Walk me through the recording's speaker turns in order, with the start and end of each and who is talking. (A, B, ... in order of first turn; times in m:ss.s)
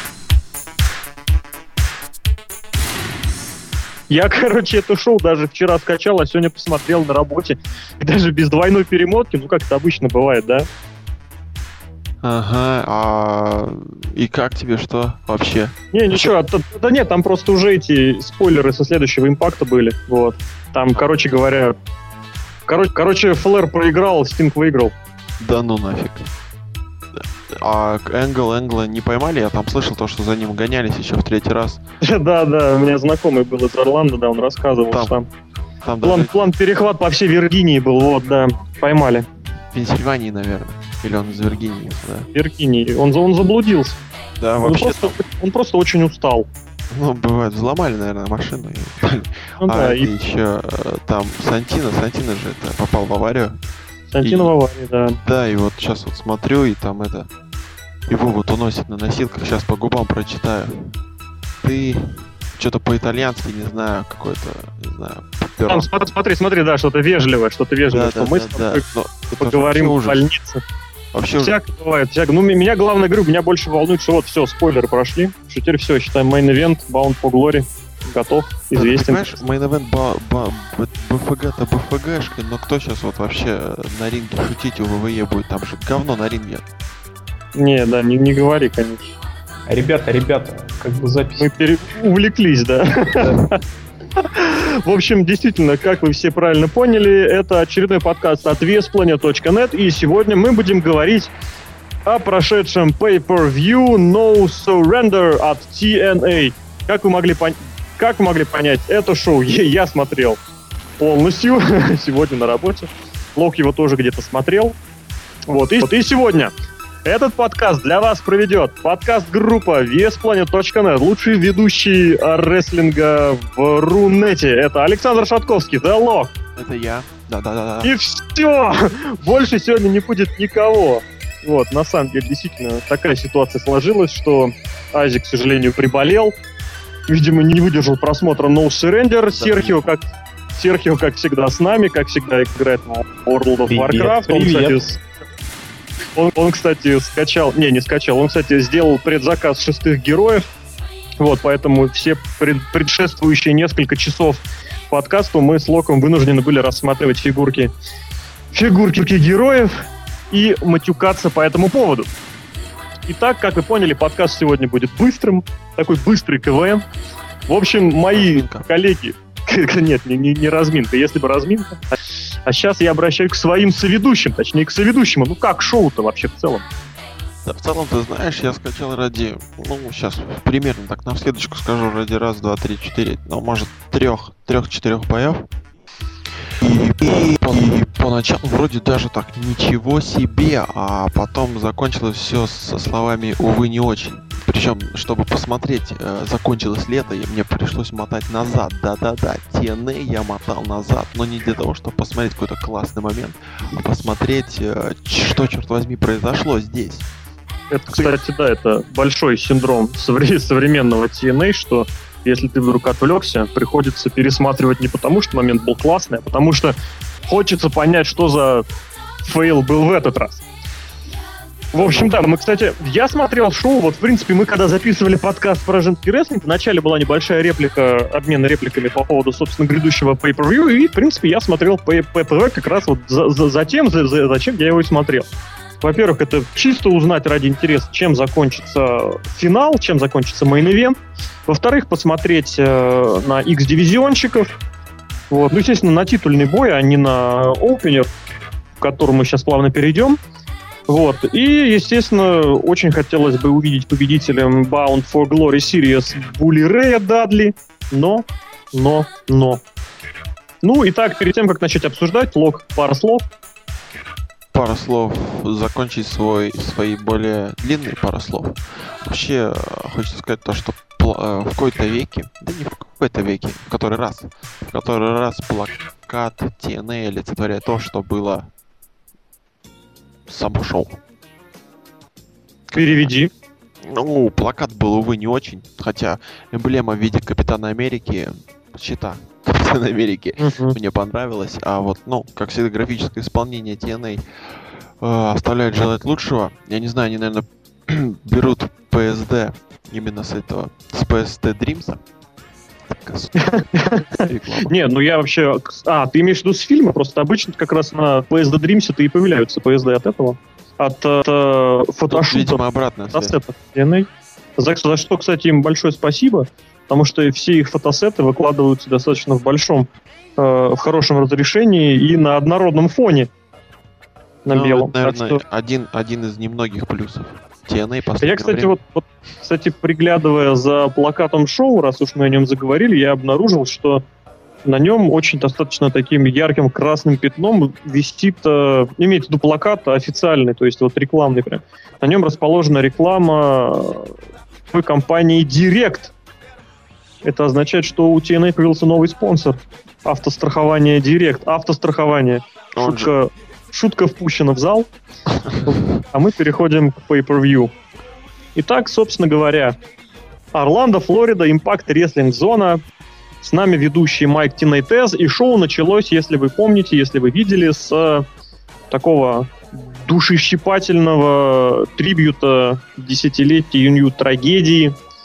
0:04.1-0:10.7 A
0:12.2-0:16.3 B
0:15.9-0:21.8 A
0:22.7-0:24.9 A
0:25.4-0:26.3 B
0:27.1-0:31.8 B
0:32.0-0:35.3 A
0:34.9-0:35.1 B
0:35.8-0:36.4 B
0:36.0-0:39.2 A
0:39.7-0:42.3 B
0:42.3-0:44.0 A
0:44.4-0:45.2 B
0:44.6-0:46.5 A
0:46.9-0:53.6 B
0:49.6-0:50.1 A
0:54.1-0:55.2 A
0:54.2-0:54.5 B
0:55.2-0:57.3 B
0:58.1-1:01.0 B
1:01.6-1:05.9 B
1:05.7-1:08.8 A
1:07.9-1:10.2 B
1:09.4-1:10.6 A
1:11.1-1:11.6 B
1:11.4-1:19.4 A
1:18.7-1:26.6 B
1:27.5-1:29.1 A
1:29.7-1:31.5 C
1:31.4-1:33.6 A
1:34.2-1:41.3 A
1:42.0-1:50.4 A
1:51.0-1:54.8 A
1:55.5-1:56.5 A
1:57.0-2:06.3 A
2:06.6-2:07.9 B
2:07.8-2:16.3 A
2:17.1-2:25.0 A
2:19.3-2:19.9 B
2:23.7-2:24.8 C
2:26.2-2:30.5 A
2:31.2-2:37.7 A
2:38.5-2:39.7 A
2:40.3-2:42.1 A
2:43.1-2:46.8 A
2:47.5-2:51.8 A
2:48.1-2:48.7 B
2:52.4-2:56.6 A
2:57.4-3:05.4 B
3:06.6-3:27.1 B
3:27.7-3:38.6 A
3:39.2-3:40.4 A
3:41.7-3:55.3 A
3:55.8-4:04.6 A
4:05.3-4:08.1 A
4:08.8-4:10.2 A
4:10.9-4:19.6 A
4:20.6-4:23.2 A
4:24.5-4:38.5 B
4:40.3-4:41.0 B
4:42.7-4:43.1 B
4:42.7-4:43.3 A
4:43.8-4:54.2 B
4:50.4-4:50.8 A
4:55.0-5:02.0 B
5:02.9-5:04.8 B
5:03.4-5:12.6 A
5:12.1-5:13.4 B
5:13.1-5:23.3 A
5:24.4-5:25.4 A
5:24.5-5:28.7 B
5:28.2-5:34.0 A
5:34.6-5:44.1 A
5:44.7-5:46.1 A
5:47.2-5:54.9 A
5:52.7-5:53.1 B
5:55.3-5:55.6 B
5:55.6-5:57.7 A
5:58.6-5:59.8 A
6:00.5-6:02.8 A
6:03.4-6:08.2 A
6:08.9-6:14.9 A